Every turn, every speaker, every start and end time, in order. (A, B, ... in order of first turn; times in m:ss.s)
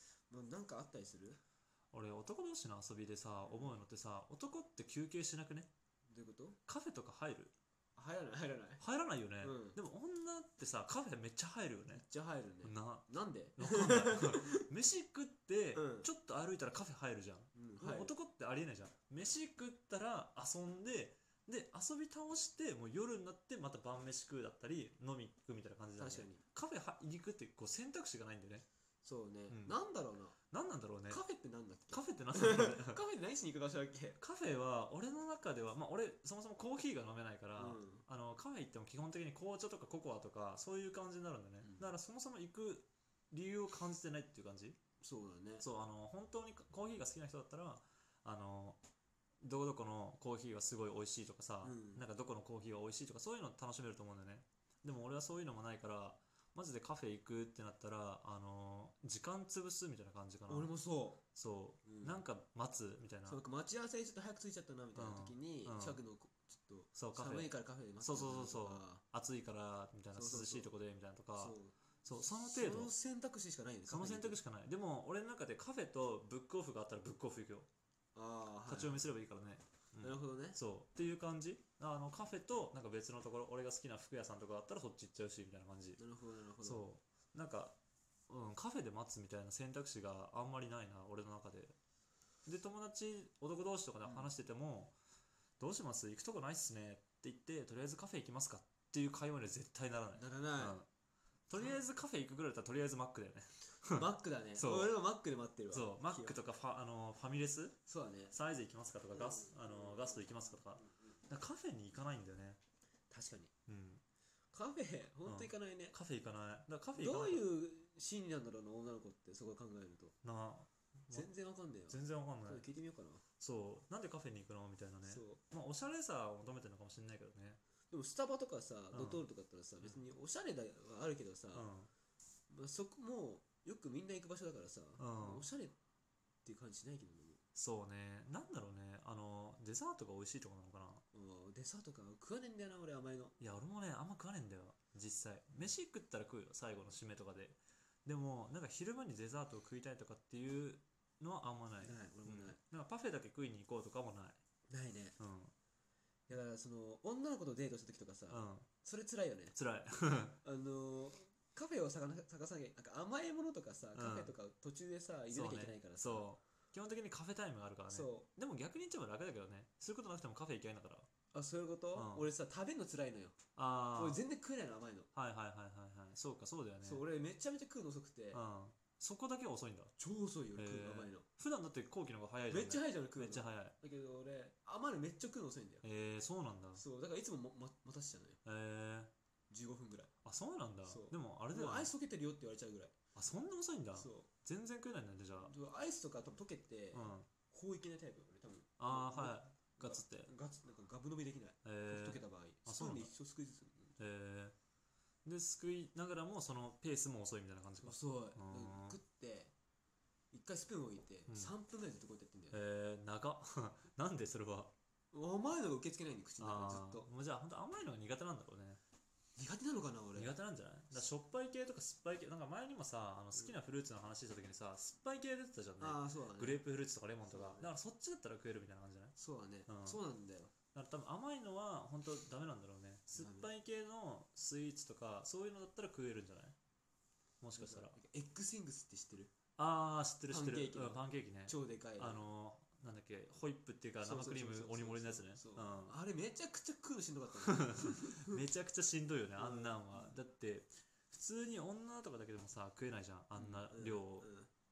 0:00.3-0:01.4 A
0:01.9-0:05.7 B
0:03.4-0:03.7 A
0:06.1-0:06.6 A
0:06.7-0:07.5 B
0:08.0-0:08.8 A
0:08.8-0:12.0 B
0:09.4-0:09.8 A
0:11.9-0:14.6 A
0:12.6-0:13.0 B
0:13.6-0:28.6 B
0:15.7-0:16.1 A
0:17.5-0:18.1 A
0:26.0-0:26.4 A
0:29.0-0:30.4 A
0:29.5-0:29.8 B
0:30.5-0:31.2 B
0:31.1-0:34.2 A
0:31.9-0:33.0 B
0:34.2-0:44.8 B
0:37.6-0:38.0 A
0:41.6-0:41.9 A
0:45.0-0:45.6 A
0:45.6-0:48.8 B
0:49.4-1:00.7 B
0:51.6-0:52.0 A
1:00.5-1:01.2 A
1:01.3-1:03.4 B
1:01.8-1:02.2 A
1:03.3-1:09.0 A
1:04.9-1:06.0 B
1:06.9-1:12.9 B
1:10.1-1:10.7 A
1:11.4-1:14.4 A
1:13.9-1:17.7 B
1:18.1-1:19.1 A
1:18.7-1:26.0 B
1:20.0-1:20.6 A
1:26.0-1:26.8 A
1:26.6-1:27.8 B
1:28.3-1:31.8 B
1:32.4-1:34.9 B
1:35.6-1:40.9 B
1:40.1-1:40.8 A
1:41.5-1:44.9 B
1:43.9-1:46.4 A
1:45.7-1:47.8 B
1:47.8-1:48.3 A
1:48.3-1:52.6 B
1:49.1-1:51.2 A
1:53.1-1:53.5 A
1:53.7-1:54.0 B
1:54.5-1:56.0 A
1:55.2-1:57.5 B
1:56.9-2:00.1 A
2:00.2-2:01.3 B
2:01.1-2:03.2 A
2:01.9-2:02.6 B
2:03.4-2:07.6 B
2:05.0-2:05.4 A
2:07.9-2:11.7 A
2:08.9-2:09.2 B
2:11.5-2:11.9 B
2:12.5-2:15.8 A
2:15.0-2:15.4 B
2:16.4-2:17.4 A
2:17.5-2:21.0 B
2:21.1-2:23.4 A
2:23.4-2:34.4 B
2:31.8-2:32.6 A
2:34.7-2:35.1 A
2:35.2-2:35.5 B
2:36.3-2:39.5 A
2:38.3-2:38.7 B
2:39.5-2:40.4 B
2:40.4-2:46.3 A
2:43.9-2:44.3 B
2:45.3-2:51.1 B
2:47.9-2:48.3 A
2:51.3-2:53.4 A
2:51.9-2:52.3 B
2:53.6-2:54.2 B
2:54.0-2:55.1 A
2:55.1-2:57.0 B
2:56.8-2:58.4 A
2:58.3-2:59.9 B
3:00.0-3:01.2 A
3:00.5-3:03.7 B
3:02.5-3:05.9 A
3:05.8-3:06.8 B
3:06.8-3:08.4 A
3:08.4-3:09.1 B
3:09.5-3:10.1 A
3:10.2-3:11.9 B
3:10.8-3:13.0 A
3:13.1-3:15.5 B
3:14.0-3:14.3 A
3:15.4-3:24.0 A
3:16.9-3:17.3 B
3:18.8-3:20.3 B
3:21.6-3:23.1 B
3:24.0-3:24.5 B
3:25.2-3:29.0 B
3:27.8-3:29.5 A
3:30.3-3:32.6 A
3:31.3-3:31.5 B
3:32.5-3:34.7 B
3:35.1-3:37.1 A
3:36.4-3:38.8 B
3:39.4-3:40.4 A
3:40.1-3:49.1 B
3:45.8-3:46.6 A
3:47.3-3:47.7 A
3:49.2-3:50.5 A
3:49.7-3:50.0 B
3:50.7-3:56.6 B
3:53.2-3:53.5 A
3:57.4-3:58.0 B
3:57.6-3:59.3 A
3:59.6-4:06.0 B
4:00.3-4:02.3 A
4:04.0-4:08.4 A
4:07.4-4:14.3 B
4:09.4-4:10.1 A
4:13.3-4:14.5 A